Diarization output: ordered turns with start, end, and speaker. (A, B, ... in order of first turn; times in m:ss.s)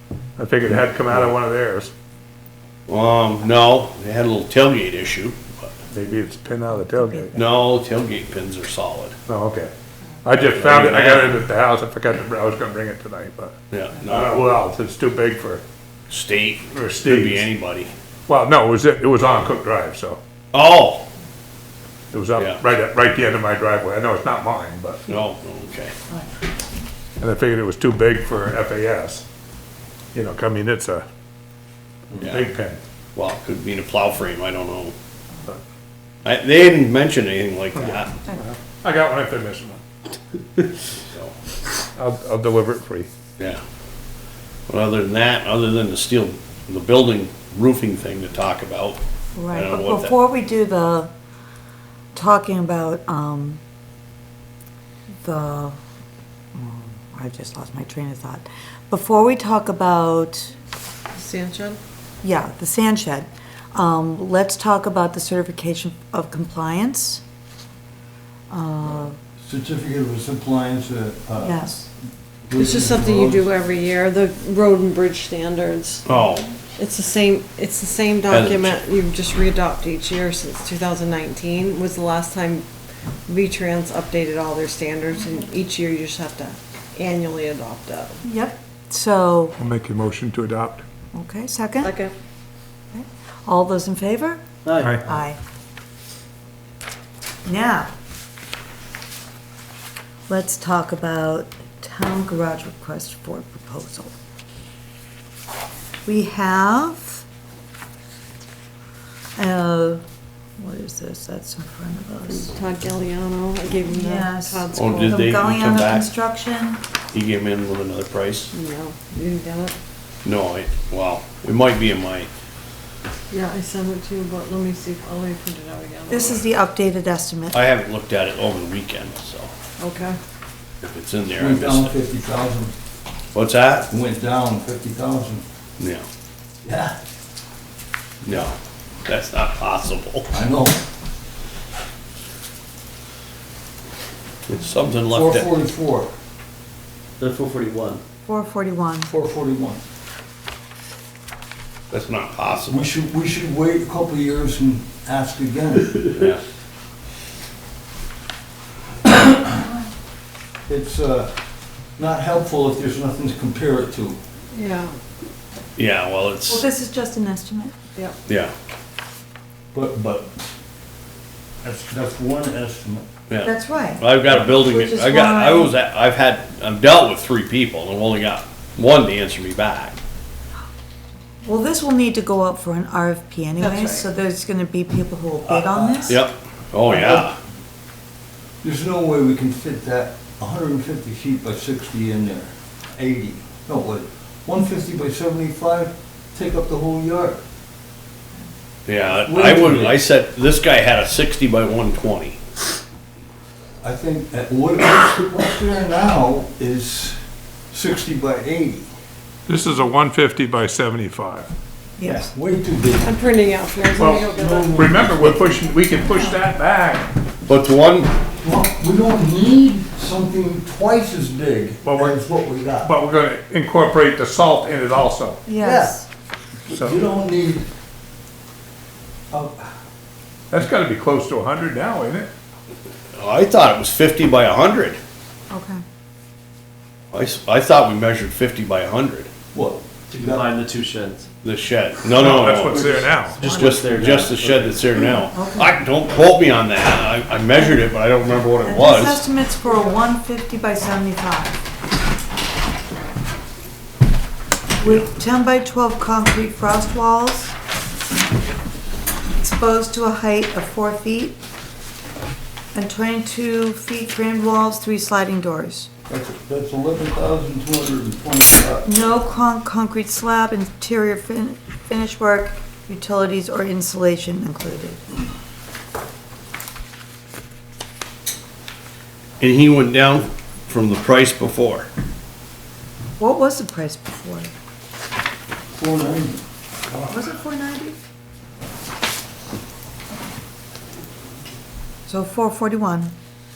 0:00.4-0:01.9 A
0:02.9-0:05.8 B
0:05.9-0:07.4 A
0:07.3-0:09.2 B
0:09.3-0:09.7 A
0:10.2-0:15.6 A
0:10.5-0:11.4 B
0:13.7-0:14.5 B
0:16.1-0:17.9 B
0:16.7-0:17.5 A
0:18.3-0:20.2 A
0:20.5-0:21.1 B
0:22.1-0:25.0 A
0:22.4-0:22.6 B
0:25.1-0:25.9 B
0:27.2-0:29.3 A
0:30.1-0:31.1 A
0:32.2-0:32.5 B
0:32.2-0:32.8 A
0:33.2-0:34.9 B
0:36.2-0:38.2 B
0:37.8-0:39.8 A
0:42.0-0:43.1 A
0:44.7-0:50.2 B
0:49.4-0:51.1 C
0:52.2-0:53.6 C
0:55.2-0:55.8 C
0:56.6-1:00.5 C
1:01.1-1:01.8 D
1:02.2-1:07.2 C
1:08.5-1:09.2 C
1:09.4-1:11.6 E
1:11.4-1:11.9 C
1:12.4-1:13.5 E
1:12.6-1:16.0 D
1:16.1-1:16.5 B
1:16.7-1:22.7 D
1:18.3-1:18.8 B
1:23.3-1:28.2 D
1:28.2-1:29.6 C
1:29.6-1:30.8 A
1:31.1-1:32.0 C
1:31.8-1:32.1 D
1:32.9-1:34.5 C
1:34.7-1:35.1 F
1:35.0-1:35.4 C
1:37.4-1:37.9 C
1:40.3-1:44.1 C
1:46.1-1:47.2 C
1:49.4-1:50.0 C
1:50.6-1:52.6 C
1:52.3-1:55.2 D
1:53.8-1:56.8 C
1:54.7-1:56.1 B
1:57.1-1:58.5 B
1:58.5-1:59.8 D
2:00.2-2:02.3 B
2:03.3-2:06.4 D
2:06.1-2:07.6 C
2:07.5-2:09.5 B
2:09.8-2:10.2 D
2:10.8-2:12.0 B
2:11.4-2:12.7 E
2:13.4-2:13.9 B
2:13.9-2:15.4 E
2:15.8-2:16.1 B
2:16.6-2:17.0 E
2:18.2-2:20.3 B
2:20.3-2:20.8 E
2:24.5-2:25.5 B
2:25.1-2:26.1 E
2:27.2-2:28.0 F
2:28.3-2:29.1 C
2:29.1-2:29.8 E
2:31.9-2:32.9 B
2:32.7-2:36.0 E
2:36.2-2:36.4 B
2:39.1-2:39.5 E
2:40.7-2:41.3 E
2:42.0-2:44.2 E
2:44.5-2:45.0 D
2:45.8-2:46.6 B
2:46.5-2:47.7 C
2:48.3-2:48.5 B
2:49.7-2:50.4 E
2:51.6-2:53.1 E
2:53.3-3:00.0 B
2:53.4-2:55.8 C
3:01.4-3:06.2 C
3:05.4-3:06.2 E
3:06.1-3:07.4 B
3:06.9-3:07.3 E
3:08.6-3:17.4 E
3:18.9-3:22.4 B
3:19.2-3:20.0 E
3:23.8-3:27.2 E
3:27.7-3:28.9 E
3:29.5-3:31.5 A
3:32.0-3:32.3 C
3:32.1-3:33.1 E
3:33.0-3:34.9 D
3:34.0-3:37.1 A
3:34.0-3:35.6 E
3:37.5-3:38.1 B
3:38.4-3:42.9 E
3:41.8-3:42.2 A
3:42.8-3:45.4 A
3:45.5-3:46.1 C
3:45.6-3:46.0 E
3:46.7-3:47.7 E
3:46.7-3:47.0 A
3:49.3-3:49.7 E
3:50.5-3:52.3 A
3:53.2-3:55.0 B
3:55.5-3:55.8 C
3:57.1-3:59.3 B
3:59.5-4:00.5 E
4:00.1-4:01.3 F
4:01.4-4:02.9 B
4:02.2-4:03.4 A
4:02.7-4:03.1 E
4:02.7-4:05.2 F
4:03.4-4:09.2 B
4:05.3-4:05.8 C
4:08.6-4:11.6 C
4:14.8-4:17.5 C
4:19.4-4:21.4 C
4:22.7-4:25.9 C
4:26.1-4:28.9 E
4:28.8-4:35.0 C
4:39.4-4:41.9 B
4:43.2-4:44.5 C
4:45.7-4:46.4 E
4:47.1-4:48.0 C
4:52.1-4:53.1 C